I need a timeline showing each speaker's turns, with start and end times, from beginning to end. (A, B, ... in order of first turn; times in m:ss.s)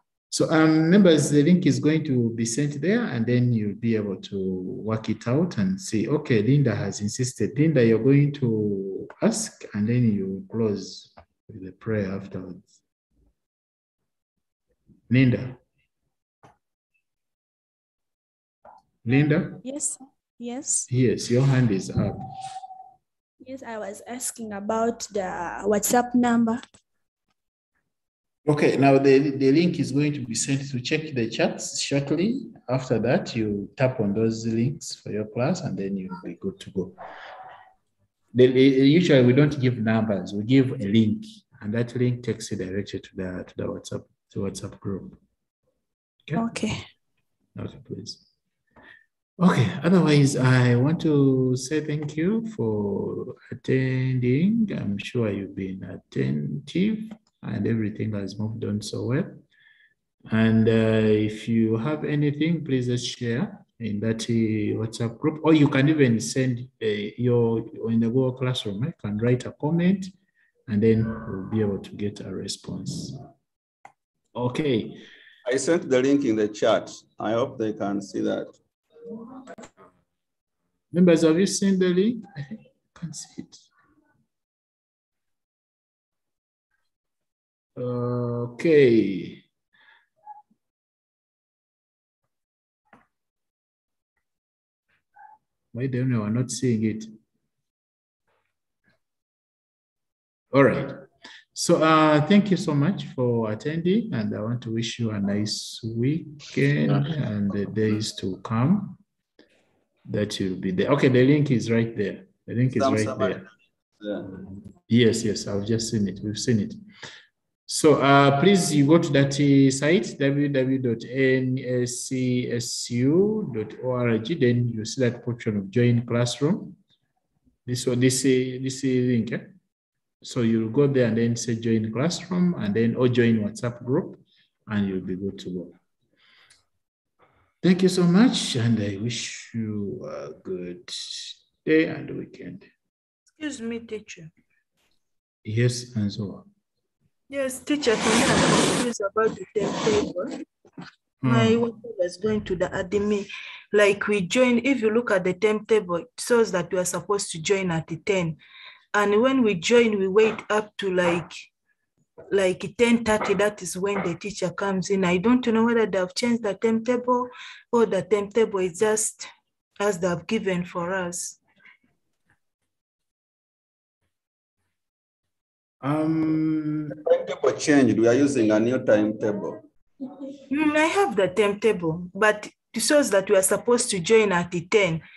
0:00.3-0:12.8 A
0:15.1-0:15.6 A
0:19.0-0:19.6 A
0:19.6-0:20.9 B
0:20.9-0:22.2 A
0:23.4-0:26.6 B
0:28.5-0:37.0 A
0:38.3-0:45.2 A
0:46.4-0:46.8 B
0:47.6-0:48.2 A
0:49.4-0:59.4 A
1:00.3-1:10.1 A
1:10.7-1:13.2 A
1:14.4-1:15.0 A
1:15.5-1:18.5 C
1:20.9-1:23.7 A
1:27.8-1:29.4 A
1:35.7-1:37.1 A
1:40.5-1:41.0 A
1:41.6-1:49.0 A
1:50.1-1:53.4 A
1:52.8-1:53.5 C
1:54.0-1:54.3 C
1:54.2-1:56.8 A
1:57.7-2:06.8 A
2:07.7-2:09.5 A
2:10.2-2:15.8 A
2:17.6-2:22.7 A
2:23.4-2:24.3 D
2:25.4-2:26.5 A
2:27.3-2:30.4 D
2:31.2-2:31.6 A
2:31.2-2:38.4 D
2:38.9-2:41.3 D
2:42.3-2:49.3 D
2:49.8-2:51.4 D
2:55.8-2:57.0 A
2:56.9-2:59.6 C
3:00.5-3:05.0 D